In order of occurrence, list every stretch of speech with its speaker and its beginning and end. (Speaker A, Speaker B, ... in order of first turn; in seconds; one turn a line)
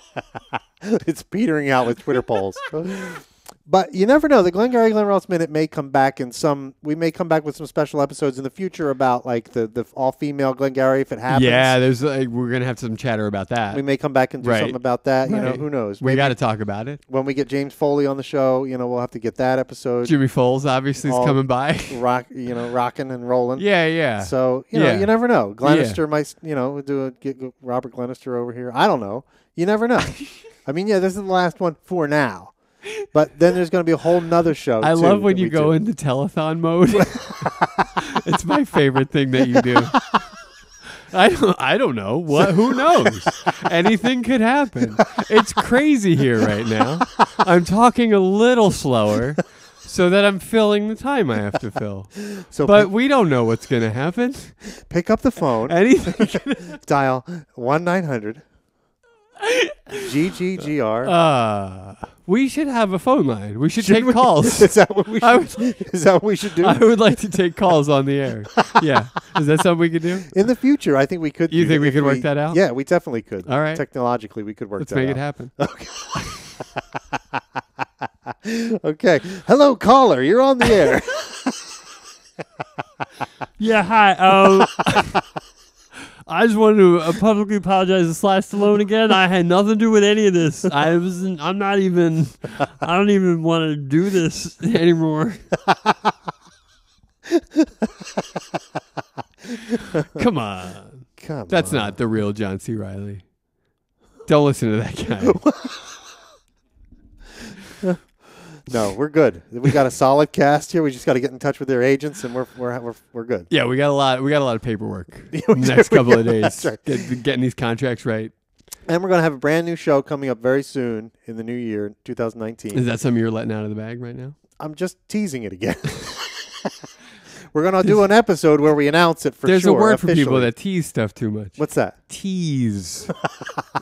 Speaker A: 0.2-11.8
Speaker B: 11.3-13.8
Speaker A: 13.7-16.4
Speaker B: 14.4-17.0
Speaker A: 17.1-20.1
Speaker B: 20.0-22.0
Speaker A: 21.0-23.7
Speaker B: 23.6-26.0
Speaker A: 24.2-32.5
Speaker A: 33.1-35.8
Speaker B: 34.8-40.1
Speaker A: 37.0-37.9
Speaker A: 39.5-40.2
Speaker B: 41.1-54.6
Speaker A: 42.3-43.3
Speaker A: 52.3-52.9
Speaker A: 54.7-58.4
Speaker B: 55.6-56.8
Speaker B: 59.4-60.1
Speaker A: 60.0-61.1
Speaker B: 61.0-65.8
Speaker A: 63.8-66.8
Speaker B: 66.6-70.4
Speaker A: 70.3-76.4
Speaker B: 71.5-72.6
Speaker B: 73.5-73.8
Speaker B: 74.8-75.5
Speaker A: 78.3-81.8
Speaker C: 83.6-85.2
Speaker C: 86.3-95.4
Speaker A: 97.3-98.4
Speaker B: 99.7-103.2
Speaker A: 99.7-100.0
Speaker A: 101.2-102.0
Speaker B: 104.3-105.4
Speaker A: 105.2-106.0
Speaker A: 108.5-113.5
Speaker B: 113.5-118.3
Speaker A: 115.3-117.1
Speaker A: 118.8-122.8
Speaker B: 122.7-124.3
Speaker A: 124.6-126.8
Speaker A: 127.5-130.5
Speaker B: 129.4-133.1
Speaker A: 131.6-132.0